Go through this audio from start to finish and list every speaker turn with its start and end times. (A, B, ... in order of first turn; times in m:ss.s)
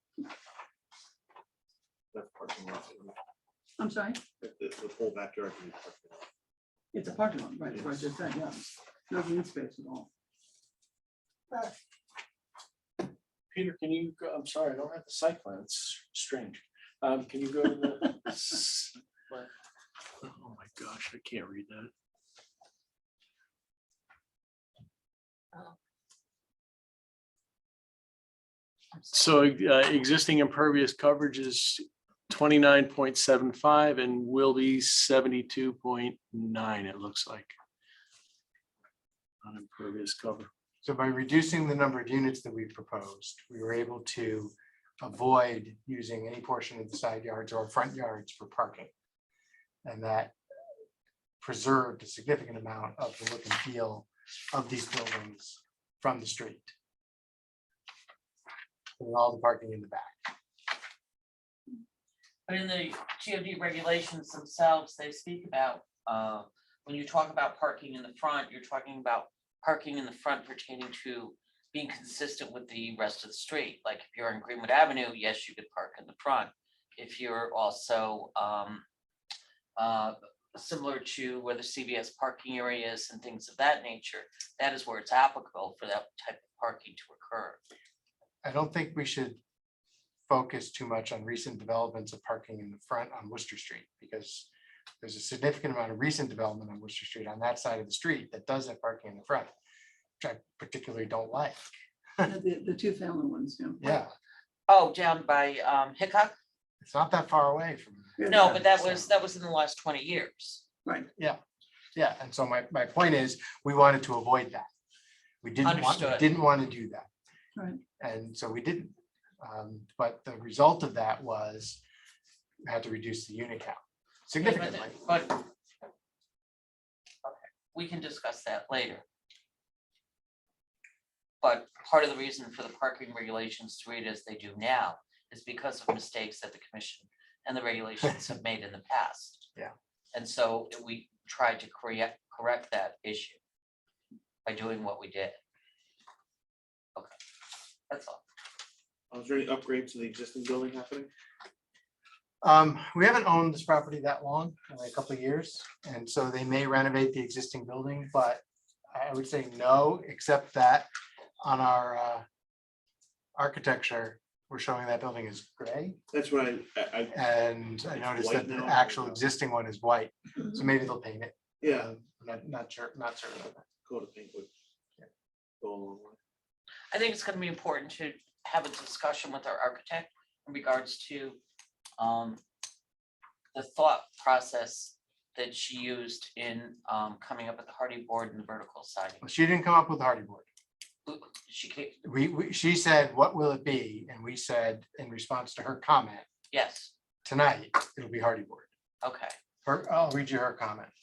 0:02.1-0:03.2 A
0:03.8-0:04.3 B
0:04.4-0:06.2 A
0:06.9-0:10.1 B
0:07.7-0:08.1 A
0:13.5-0:19.0 C
0:20.2-0:21.9 C
0:29.1-0:37.5 C
0:39.4-0:40.5 C
0:40.8-0:48.9 D
0:49.8-0:50.4 D
0:51.4-0:56.7 D
0:59.0-1:00.2 D
1:02.5-1:18.8 E
1:19.8-1:27.6 E
1:28.4-1:29.4 D
1:30.3-1:34.5 D
1:35.0-1:39.5 D
1:40.2-1:42.3 D
1:42.2-1:44.0 B
1:43.8-1:44.1 D
1:44.7-1:46.4 E
1:46.8-1:49.1 D
1:48.2-1:48.5 B
1:48.2-1:50.6 E
1:52.0-1:54.7 D
1:55.4-1:57.1 D
1:55.6-1:56.3 E
1:57.6-1:57.8 B
1:58.0-2:01.8 D
2:02.7-2:05.0 D
2:04.4-2:05.5 E
2:07.2-2:09.0 E
2:11.4-2:19.5 E
2:20.1-2:23.4 E
2:24.4-2:25.4 E
2:27.9-2:28.2 E
2:29.1-2:31.1 A
2:32.4-2:38.4 D
2:38.9-2:40.9 D
2:41.4-2:42.2 D
2:43.4-2:46.0 D
2:46.1-2:47.2 A
2:47.1-2:53.6 D
2:47.9-2:49.2 A
2:51.6-2:51.9 A
2:53.9-2:54.5 A
2:55.6-2:56.2 A
2:56.9-3:01.4 E
3:02.0-3:02.4 E
3:03.5-3:09.2 E
3:09.2-3:10.5 D
3:11.1-3:12.0 E
3:12.0-3:16.3 D
3:16.5-3:16.9 E
3:17.2-3:18.7 D
3:19.0-3:19.3 E
3:19.6-3:20.9 D